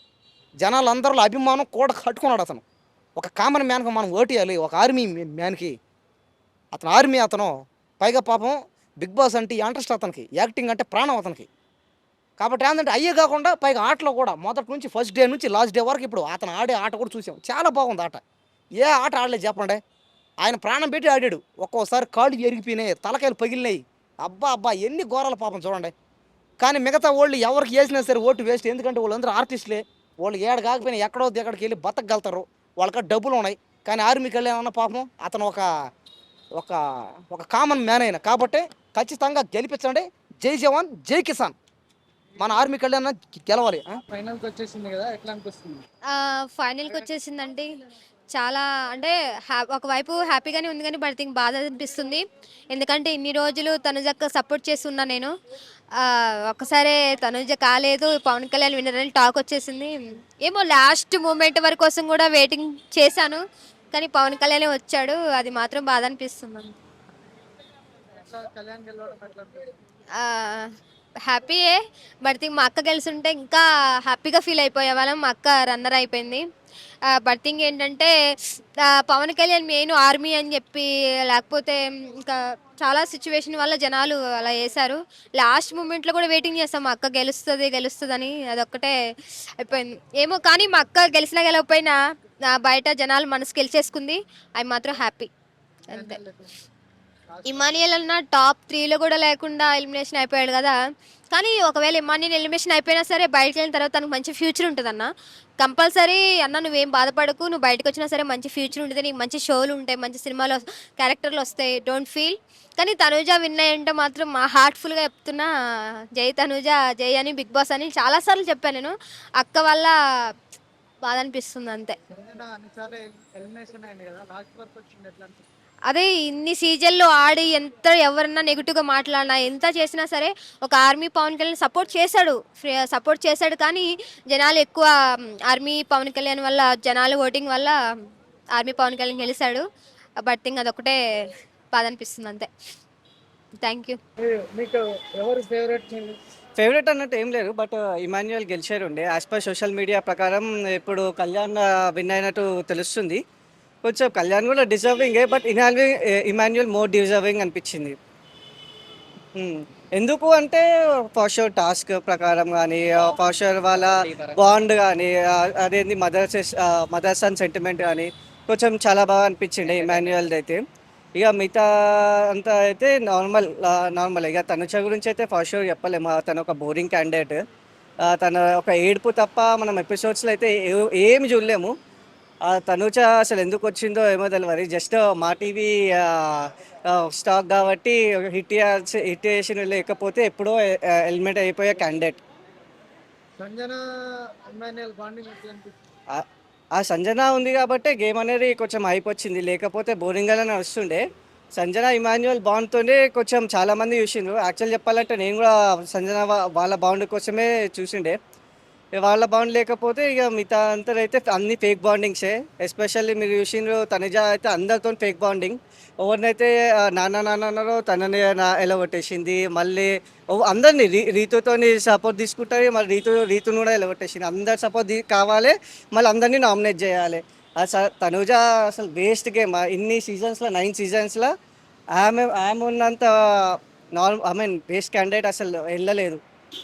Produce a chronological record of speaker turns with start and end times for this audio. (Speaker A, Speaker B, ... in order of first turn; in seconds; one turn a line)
Speaker A: 0.6-2.6
Speaker A: 3.2-5.7
Speaker A: 6.7-11.5
Speaker A: 12.4-18.2
Speaker A: 18.8-19.8
Speaker A: 20.4-25.9
Speaker A: 26.6-35.7
Speaker A: 37.3-41.5
Speaker A: 42.4-43.9
Speaker B: 44.1-45.8
Speaker C: 46.1-47.7
Speaker C: 48.3-55.3
Speaker C: 56.0-63.4
Speaker C: 63.9-66.8
Speaker B: 68.2-69.7
Speaker C: 70.2-70.7
Speaker C: 71.3-76.4
Speaker C: 77.2-78.1
Speaker C: 78.9-88.9
Speaker C: 89.6-92.0
Speaker C: 92.6-95.3
Speaker B: 95.9-96.6
Speaker C: 95.9-96.2
Speaker B: 97.3-97.7
Speaker C: 97.5-100.8
Speaker C: 101.3-105.1
Speaker C: 105.6-115.5
Speaker C: 116.2-119.9
Speaker C: 121.1-122.0
Speaker B: 122.1-125.4
Speaker C: 125.9-134.9
Speaker C: 135.5-137.7
Speaker C: 138.6-139.6
Speaker C: 140.2-141.0
Speaker C: 141.7-142.5
Speaker C: 143.6-144.0
Speaker B: 144.2-146.2
Speaker D: 146.6-153.2
Speaker D: 153.8-158.0
Speaker D: 159.3-170.6
Speaker D: 171.2-177.4
Speaker D: 178.1-181.7
Speaker D: 182.5-192.2
Speaker B: 193.4-193.8
Speaker B: 194.5-195.8
Speaker D: 196.1-201.0
Speaker D: 201.6-208.2
Speaker D: 209.0-231.3
Speaker D: 231.9-236.2